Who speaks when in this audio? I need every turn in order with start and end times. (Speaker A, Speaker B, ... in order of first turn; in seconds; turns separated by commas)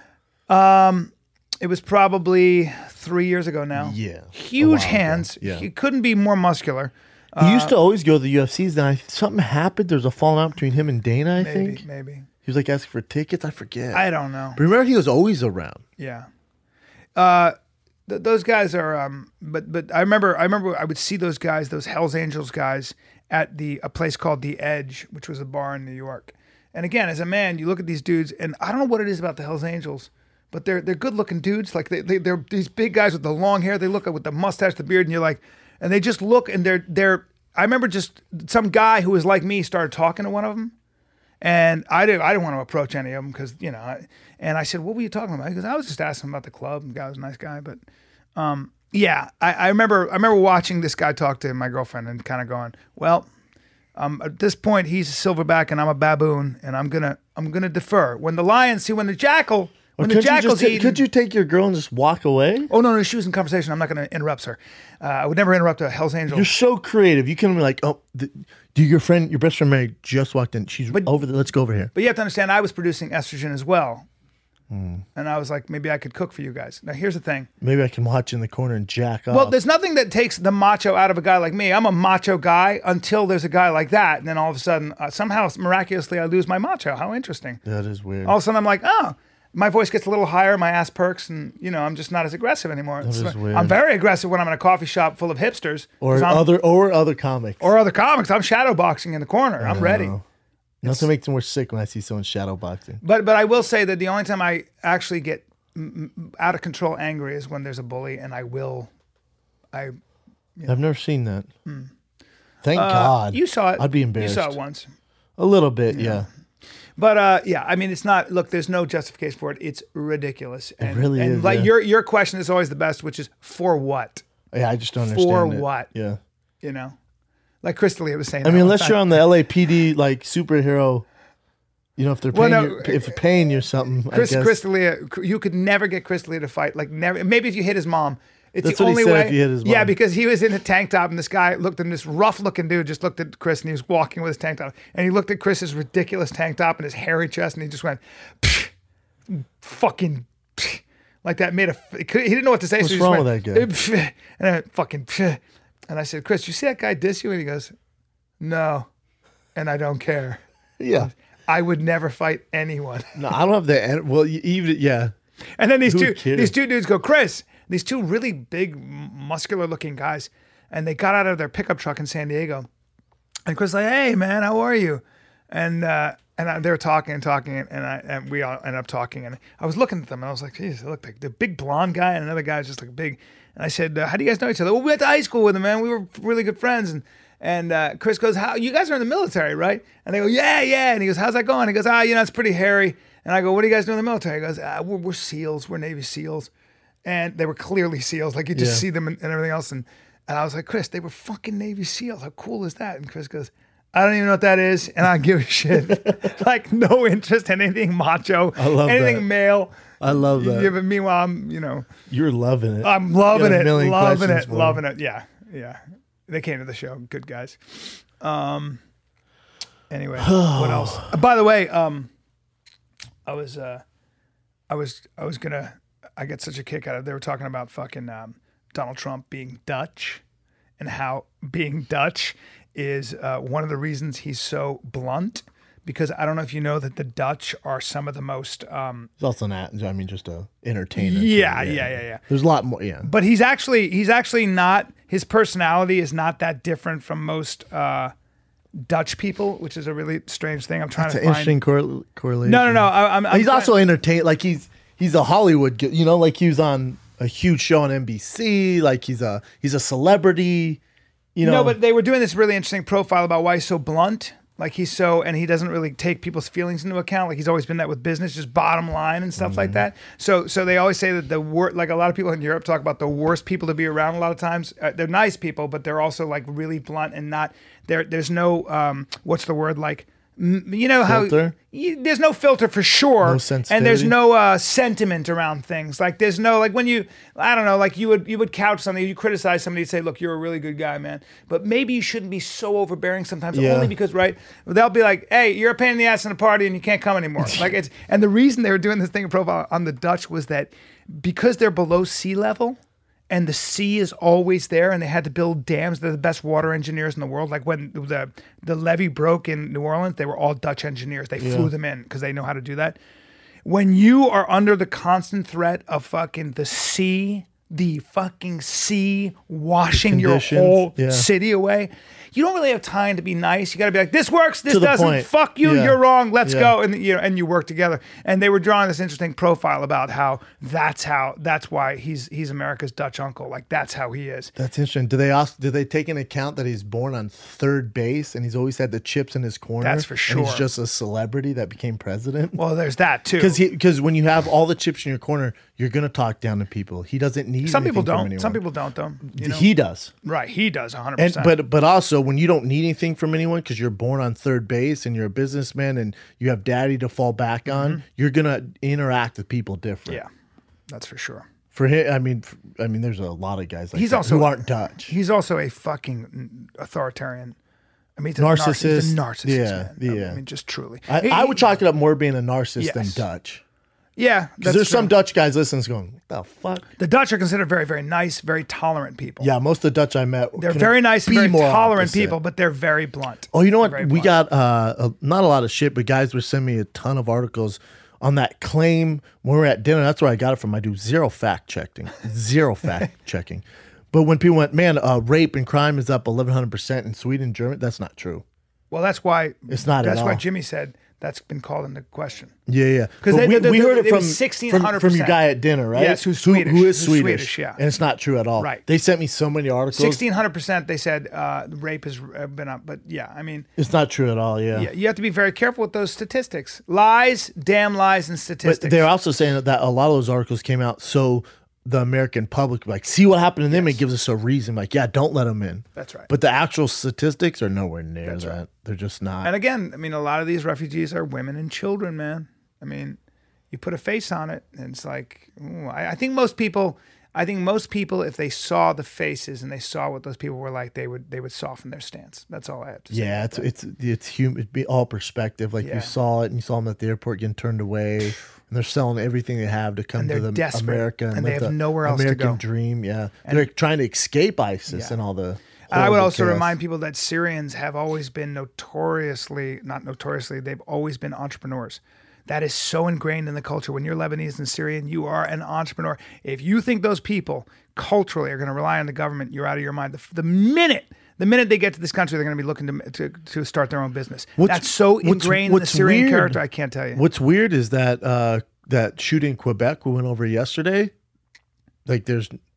Speaker A: 0.5-7.7, Speaker B: 3.8-5.7, Speaker B: 7.4-11.8, Speaker A: 11.4-12.3, Speaker B: 12.4-15.8, Speaker A: 13.9-14.6, Speaker A: 16.0-16.3, Speaker A: 17.2-17.6, Speaker A: 18.1-40.7, Speaker A: 41.4-47.8, Speaker A: 48.4-53.3, Speaker A: 54.0-61.0, Speaker B: 60.0-62.7, Speaker A: 62.7-66.5, Speaker B: 66.3-71.9, Speaker A: 71.9-74.1, Speaker B: 74.7-75.0, Speaker A: 75.2-77.5, Speaker B: 77.6-79.5, Speaker A: 79.3-87.6, Speaker B: 87.7-88.4, Speaker A: 88.2-96.5, Speaker B: 93.0-93.8, Speaker B: 96.0-97.7, Speaker A: 97.6-100.2, Speaker B: 99.6-100.2, Speaker A: 100.8-101.1, Speaker B: 100.8-103.0, Speaker A: 103.0-108.9, Speaker B: 110.7-111.5, Speaker B: 112.6-114.6, Speaker A: 112.7-114.9, Speaker B: 115.4-116.3, Speaker A: 115.9-116.3, Speaker A: 117.0-124.2, Speaker B: 120.8-121.7, Speaker B: 124.5-126.2, Speaker A: 125.0-125.9, Speaker A: 126.6-127.0, Speaker A: 127.6-129.2, Speaker B: 128.4-131.1, Speaker B: 132.0-134.6, Speaker A: 132.3-133.2, Speaker A: 134.1-148.7, Speaker B: 138.6-139.9, Speaker A: 149.3-157.7, Speaker B: 152.8-153.7, Speaker A: 158.4-158.9, Speaker A: 159.6-160.4, Speaker B: 160.8-161.1, Speaker A: 161.0-163.2, Speaker B: 163.2-165.1, Speaker A: 165.6-172.7, Speaker B: 165.9-166.5, Speaker A: 173.5-196.5, Speaker A: 197.1-211.9, Speaker B: 198.5-198.8, Speaker B: 208.6-209.3, Speaker B: 210.0-210.7, Speaker B: 212.1-214.8, Speaker A: 212.8-218.8, Speaker A: 219.9-222.1, Speaker B: 220.2-221.1, Speaker A: 223.3-223.8, Speaker A: 224.7-230.2, Speaker A: 230.8-239.1, Speaker B: 239.2-243.1, Speaker A: 241.0-242.2, Speaker A: 243.0-248.1, Speaker A: 248.8-251.6, Speaker B: 251.0-260.8, Speaker A: 252.4-253.7, Speaker B: 261.4-261.8, Speaker A: 261.4-302.8, Speaker B: 269.4-269.8, Speaker B: 281.0-281.6, Speaker B: 283.2-284.2, Speaker B: 293.5-293.9, Speaker A: 303.3-313.0, Speaker B: 311.4-311.7, Speaker A: 313.6-334.5, Speaker B: 319.9-321.3, Speaker B: 324.7-326.8, Speaker B: 334.6-342.6, Speaker A: 339.8-340.7, Speaker A: 342.6-343.6, Speaker B: 343.4-348.6, Speaker A: 347.6-349.7, Speaker B: 349.3-350.1, Speaker A: 350.2-351.6, Speaker B: 351.2-360.2, Speaker A: 357.7-358.0, Speaker A: 360.9-361.5, Speaker B: 361.7-365.1, Speaker A: 363.9-367.6, Speaker A: 368.2-371.6, Speaker B: 368.4-370.4, Speaker B: 371.1-373.6, Speaker A: 372.8-373.2, Speaker A: 374.2-375.1, Speaker B: 374.6-376.9, Speaker A: 377.0-379.5, Speaker B: 379.4-382.4, Speaker A: 380.6-384.3, Speaker B: 383.5-398.4, Speaker A: 398.9-402.5, Speaker B: 399.7-400.4, Speaker B: 402.7-410.2, Speaker A: 403.2-405.4, Speaker A: 405.9-407.8, Speaker A: 408.6-408.8, Speaker A: 409.9-413.7, Speaker B: 413.8-414.9, Speaker A: 414.7-419.1, Speaker B: 418.6-429.5, Speaker A: 423.7-424.0, Speaker A: 426.0-426.3, Speaker A: 428.2-428.6, Speaker A: 429.4-433.2, Speaker A: 433.7-443.7, Speaker B: 443.1-456.8, Speaker A: 445.8-446.1, Speaker A: 450.2-452.6, Speaker A: 454.9-455.2, Speaker A: 455.9-477.2, Speaker B: 474.6-476.6, Speaker B: 477.1-481.1, Speaker B: 482.1-482.6